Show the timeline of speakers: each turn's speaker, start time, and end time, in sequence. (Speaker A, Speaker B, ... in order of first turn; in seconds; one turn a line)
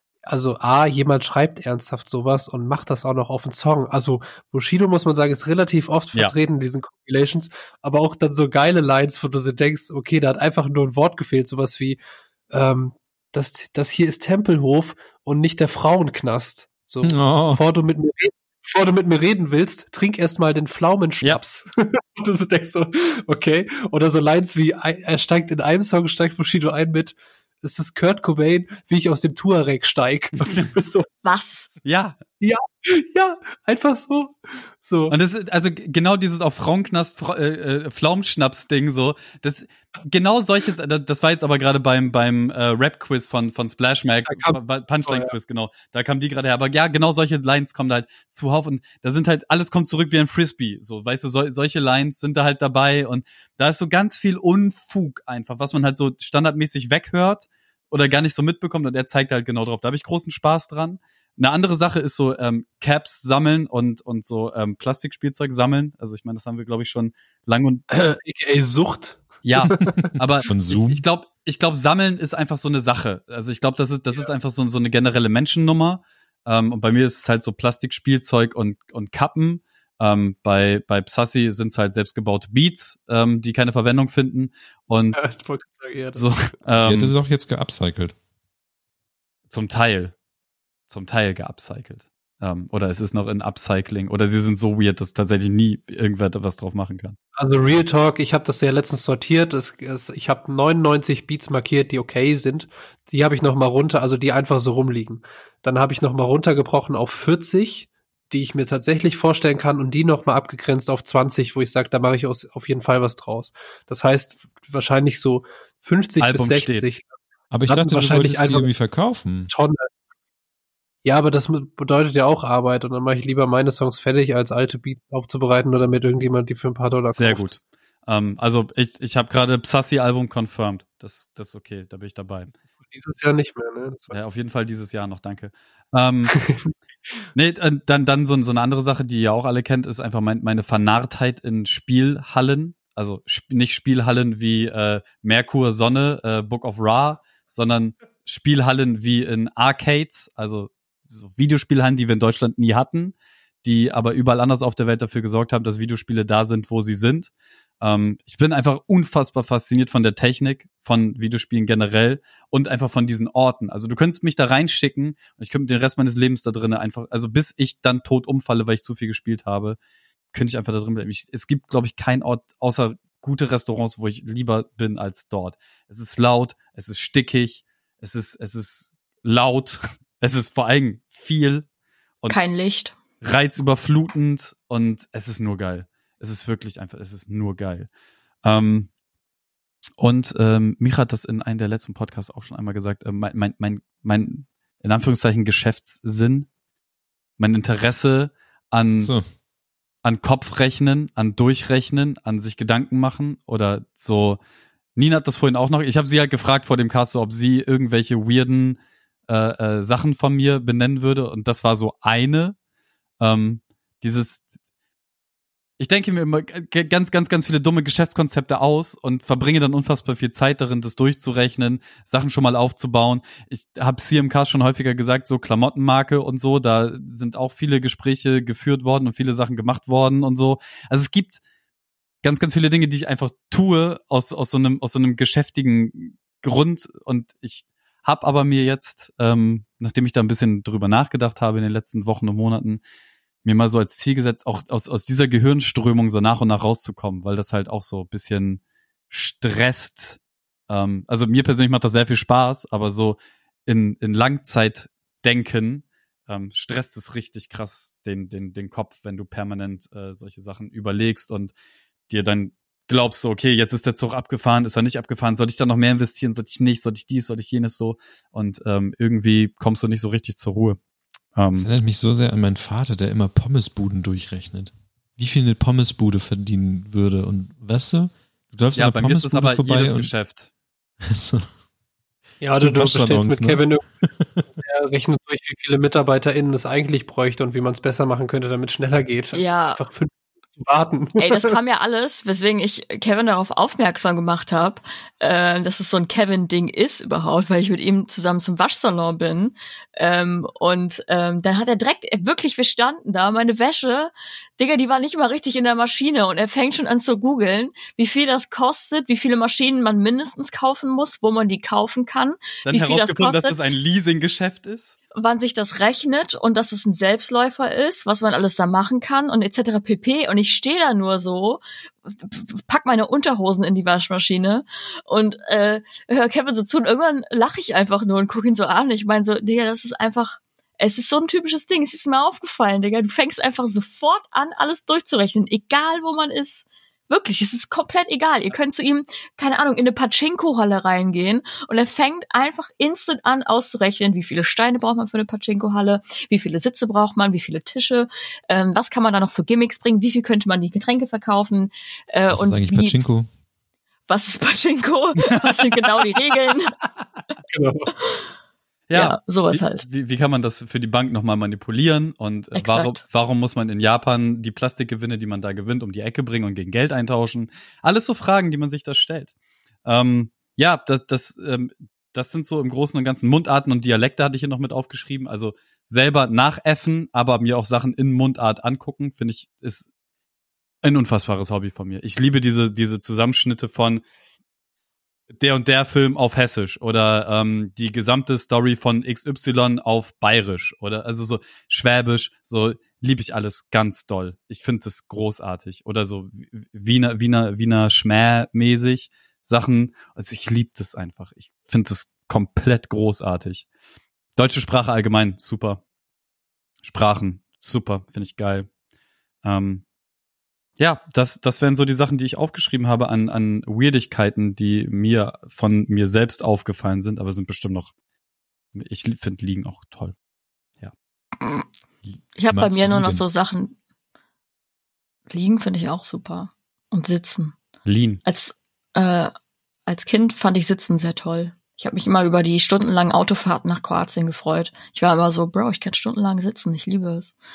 Speaker A: 0.2-31.1
Speaker B: 17.0-17.6
Speaker C: 31.2-31.8
Speaker D: 31.8-32.1
Speaker A: 32.4-35.1
Speaker D: 35.1-67.8
Speaker A: 44.3-45.3
Speaker A: 67.9-70.1
Speaker D: 69.4-85.2
Speaker B: 70.4-71.0
Speaker A: 85.1-86.5
Speaker D: 86.1-87.1
Speaker B: 86.8-88.1
Speaker D: 89.5-90.1
Speaker D: 90.9-97.2
Speaker A: 97.4-117.1
Speaker D: 116.2-116.8
Speaker B: 117.5-119.5
Speaker A: 117.7-118.7
Speaker A: 119.5-119.8
Speaker A: 121.0-127.5
Speaker D: 127.1-132.5
Speaker A: 132.9-134.3
Speaker D: 134.1-136.3
Speaker A: 136.3-136.7
Speaker D: 137.3-169.8
Speaker D: 170.3-181.7
Speaker C: 182.3-182.9
Speaker D: 183.2-187.9
Speaker D: 188.4-188.9
Speaker D: 190.0-196.5
Speaker D: 197.4-199.1
Speaker D: 200.0-204.4
Speaker D: 204.9-212.6
Speaker D: 213.2-214.5
Speaker D: 215.8-231.4
Speaker D: 232.2-242.8
Speaker D: 243.4-261.5
Speaker D: 262.1-270.8
Speaker D: 271.4-271.7
Speaker B: 271.5-280.1
Speaker D: 278.8-280.5
Speaker B: 281.0-281.5
Speaker A: 282.4-283.8
Speaker B: 282.5-284.4
Speaker A: 284.6-291.5
Speaker C: 289.3-289.8
Speaker C: 291.2-313.6
Speaker D: 312.6-315.0
Speaker C: 315.1-353.1
Speaker B: 352.3-353.3
Speaker C: 354.1-356.8
Speaker A: 357.5-357.9
Speaker C: 358.0-358.3
Speaker D: 358.9-369.3
Speaker C: 358.9-359.8
Speaker C: 362.5-363.0
Speaker D: 369.8-379.9
Speaker D: 380.8-384.0
Speaker D: 385.3-403.6
Speaker D: 404.4-405.8
Speaker D: 406.8-408.7
Speaker D: 409.4-409.8
Speaker D: 410.8-417.9
Speaker D: 418.7-420.1
Speaker C: 422.4-423.7
Speaker B: 422.5-423.2
Speaker C: 425.3-427.6
Speaker D: 427.8-428.2
Speaker C: 428.2-429.3
Speaker C: 429.9-437.3